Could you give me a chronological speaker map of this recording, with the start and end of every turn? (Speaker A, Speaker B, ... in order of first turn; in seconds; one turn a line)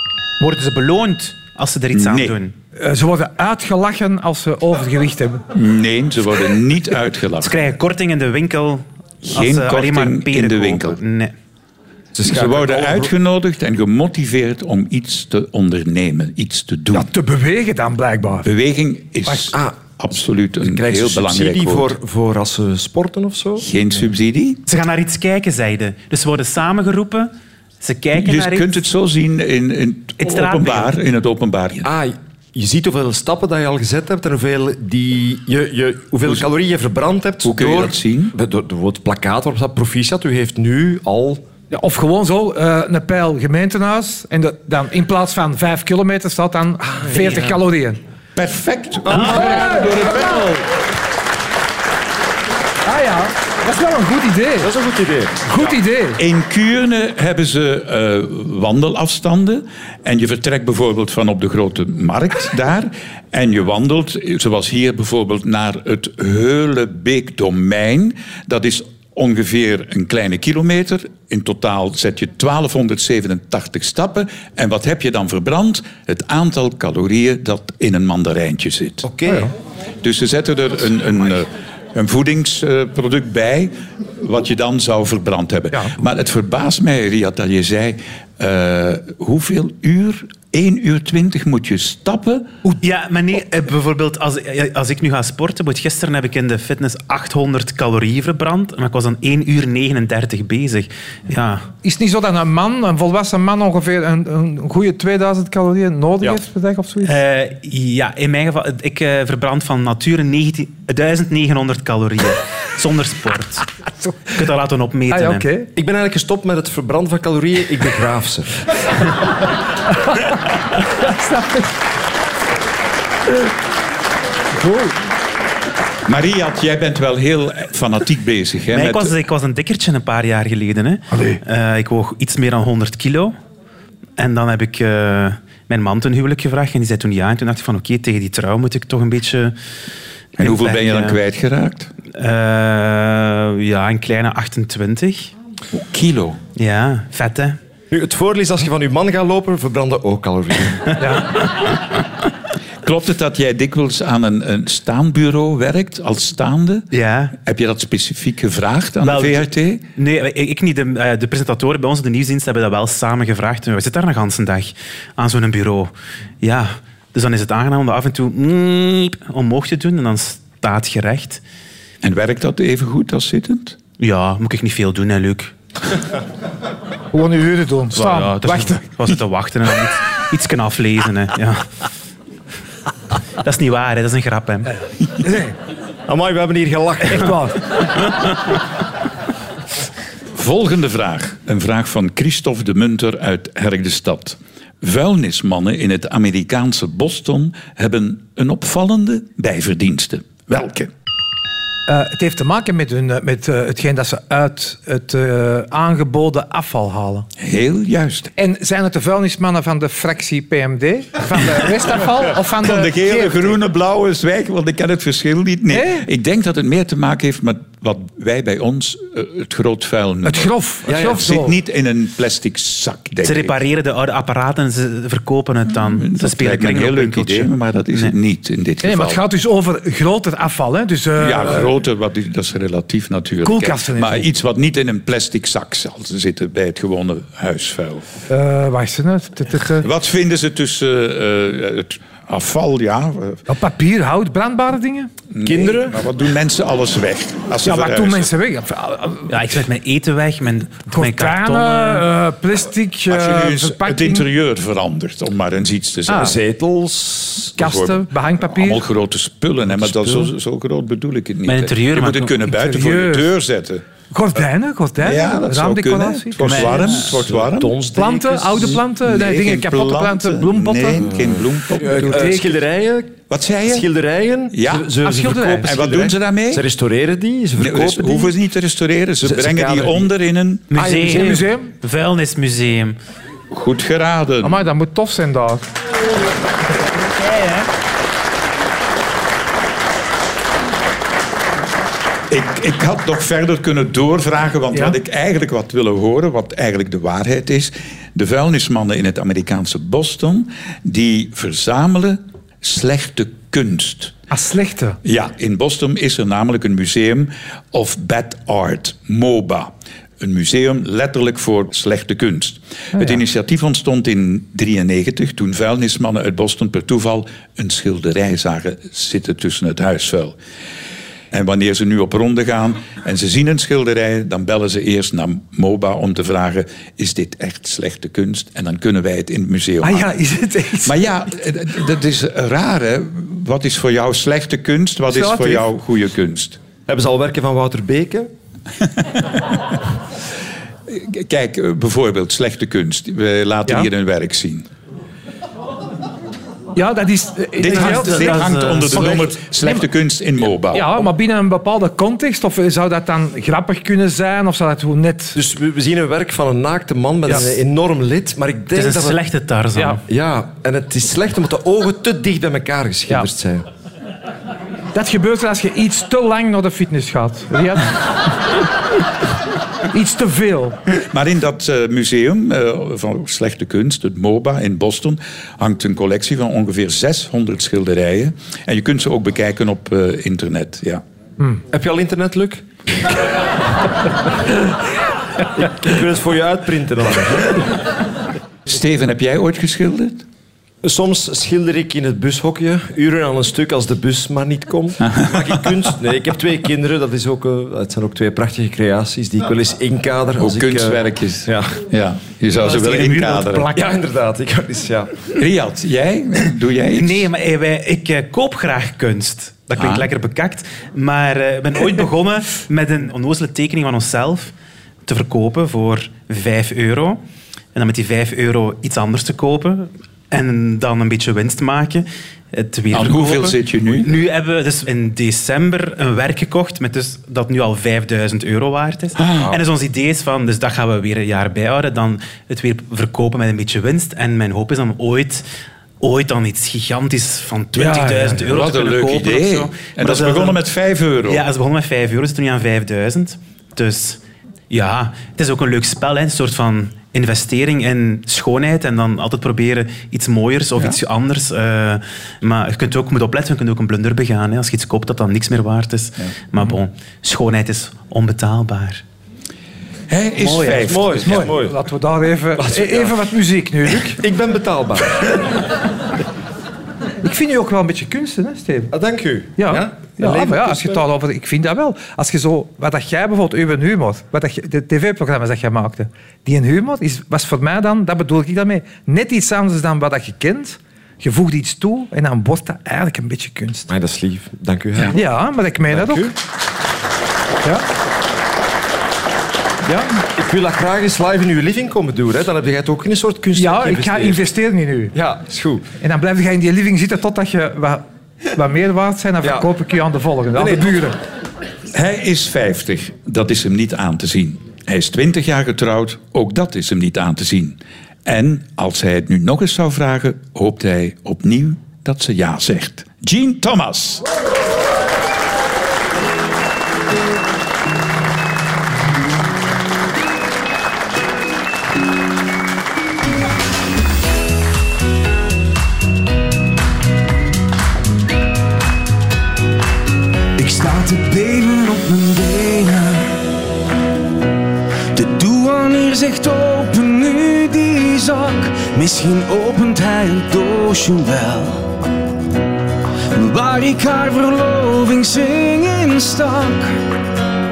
Speaker A: 0.4-2.5
Speaker B: 1.9-2.4
Speaker C: 2.8-5.5
Speaker B: 5.5-7.6
Speaker A: 7.4-11.3
Speaker B: 9.2-11.0
Speaker D: 12.2-13.1
Speaker B: 12.2-17.1
Speaker C: 16.9-18.5
Speaker B: 18.4-22.0
Speaker D: 19.5-19.8
Speaker D: 20.6-23.7
Speaker B: 23.6-24.6
Speaker A: 24.7-28.8
Speaker B: 28.1-31.9
Speaker A: 30.2-30.9
Speaker D: 31.8-41.4
Speaker B: 37.4-38.3
Speaker C: 41.7-48.0
Speaker D: 46.9-47.6
Speaker B: 48.4-50.7
Speaker C: 49.1-50.5
Speaker D: 49.1-49.6
Speaker C: 52.9-54.7
Speaker D: 54.6-55.4
Speaker C: 55.5-56.2
Speaker B: 56.2-79.1
Speaker D: 79.0-79.5
Speaker B: 80.0-92.5
Speaker A: 92.8-101.7
Speaker C: 101.8-107.1
Speaker A: 107.0-113.7
Speaker C: 114.0-114.3
Speaker A: 114.3-115.5
Speaker C: 115.1-115.7
Speaker D: 115.8-118.6
Speaker C: 120.8-121.8
Speaker C: 124.5-124.9
Speaker B: 126.1-129.1
Speaker A: 128.7-133.3
Speaker C: 131.1-131.4
Speaker A: 134.2-139.6
Speaker A: 140.4-141.2
Speaker B: 140.4-141.9
Speaker A: 142.1-145.3
Speaker B: 145.7-146.4
Speaker A: 146.6-147.6
Speaker D: 147.9-151.0
Speaker B: 152.8-159.8
Speaker A: 156.9-157.3
Speaker A: 159.0-171.4
Speaker B: 172.0-173.8
Speaker A: 174.0-175.5
Speaker C: 177.1-178.8
Speaker A: 177.9-181.7
Speaker A: 183.4-184.7
Speaker C: 185.2-185.6
Speaker D: 186.1-187.5
Speaker C: 187.1-187.6
Speaker B: 190.3-200.9
Speaker C: 201.9-207.3
Speaker B: 207.4-208.3
Speaker C: 208.4-213.6
Speaker B: 212.6-223.6
Speaker C: 215.7-216.1
Speaker C: 220.2-221.6
Speaker D: 220.9-221.2
Speaker A: 223.2-228.2
Speaker B: 225.7-229.2
Speaker C: 228.8-231.7
Speaker B: 231.2-238.1
Speaker C: 233.4-234.3
Speaker C: 238.3-239.9
Speaker B: 239.8-243.4
Speaker C: 243.5-245.1
Speaker B: 245.3-248.3
Speaker D: 245.4-246.0
Speaker C: 247.6-249.3
Speaker A: 249.3-252.1
Speaker C: 250.9-254.3
Speaker B: 253.1-256.4
Speaker D: 256.1-257.6
Speaker C: 257.6-258.9
Speaker B: 257.6-263.8
Speaker D: 259.8-260.3
Speaker A: 261.5-262.4
Speaker C: 262.4-263.3
Speaker C: 264.1-266.9
Speaker B: 265.0-267.8
Speaker D: 266.5-268.8
Speaker C: 267.9-271.0
Speaker B: 268.6-272.5
Speaker D: 271.0-278.3
Speaker C: 272.1-272.6
Speaker B: 273.3-273.9
Speaker B: 274.5-275.0
Speaker C: 275.0-275.7
Speaker B: 275.6-276.6
Speaker B: 277.6-280.7
Speaker D: 279.2-280.1
Speaker A: 280.7-283.0
Speaker C: 280.8-281.7
Speaker D: 280.8-281.3
Speaker B: 283.5-284.7
Speaker C: 284.4-285.6
Speaker A: 286.9-287.7
Speaker B: 292.3-304.2
Speaker C: 304.3-305.0
Speaker B: 305.0-320.4
Speaker B: 321.3-330.1
Speaker C: 329.8-331.0
Speaker B: 330.8-336.6
Speaker C: 335.1-335.6
Speaker D: 336.9-338.3
Speaker B: 339.1-339.6
Speaker B: 340.9-344.7
Speaker C: 346.8-349.9
Speaker B: 347.6-351.1
Speaker A: 347.7-349.2
Speaker C: 350.7-355.4
Speaker D: 355.4-359.2
Speaker C: 357.3-357.5
Speaker A: 358.8-360.0
Speaker D: 360.1-363.7
Speaker C: 364.9-368.0
Speaker C: 369.9-370.8
Speaker B: 370.9-381.0
Speaker D: 381.7-382.6
Speaker D: 385.5-387.8
Speaker B: 388.6-390.2
Speaker D: 390.8-401.8
Speaker B: 400.4-403.8
Speaker D: 402.7-405.3
Speaker B: 405.3-407.3
Speaker A: 406.9-414.5
Speaker B: 409.8-410.1
Speaker A: 415.1-417.2
Speaker A: 417.8-435.4
Speaker B: 422.9-424.1
Speaker B: 429.2-429.6
Speaker A: 436.0-440.6
Speaker C: 437.8-438.4
Speaker B: 438.4-441.4
Speaker A: 441.2-459.0
Speaker B: 460.1-461.5
Speaker A: 460.4-460.9
Speaker D: 460.6-461.8
Speaker C: 461.2-464.2
Speaker D: 462.6-463.1
Speaker D: 464.1-465.5
Speaker C: 467.2-468.9
Speaker D: 468.9-471.0
Speaker C: 469.6-483.9
Speaker D: 483.9-485.2
Speaker C: 485.1-486.3
Speaker D: 485.9-486.3
Speaker C: 489.9-490.3
Speaker D: 490.4-494.4
Speaker C: 493.6-495.1
Speaker D: 495.1-495.9
Speaker C: 496.0-498.0
Speaker C: 498.5-501.2
Speaker D: 500.6-501.0
Speaker B: 501.9-514.2
Speaker E: 535.2-536.4
Speaker E: 537.2-537.6
Speaker E: 543.8-544.4
Speaker E: 545.3-545.8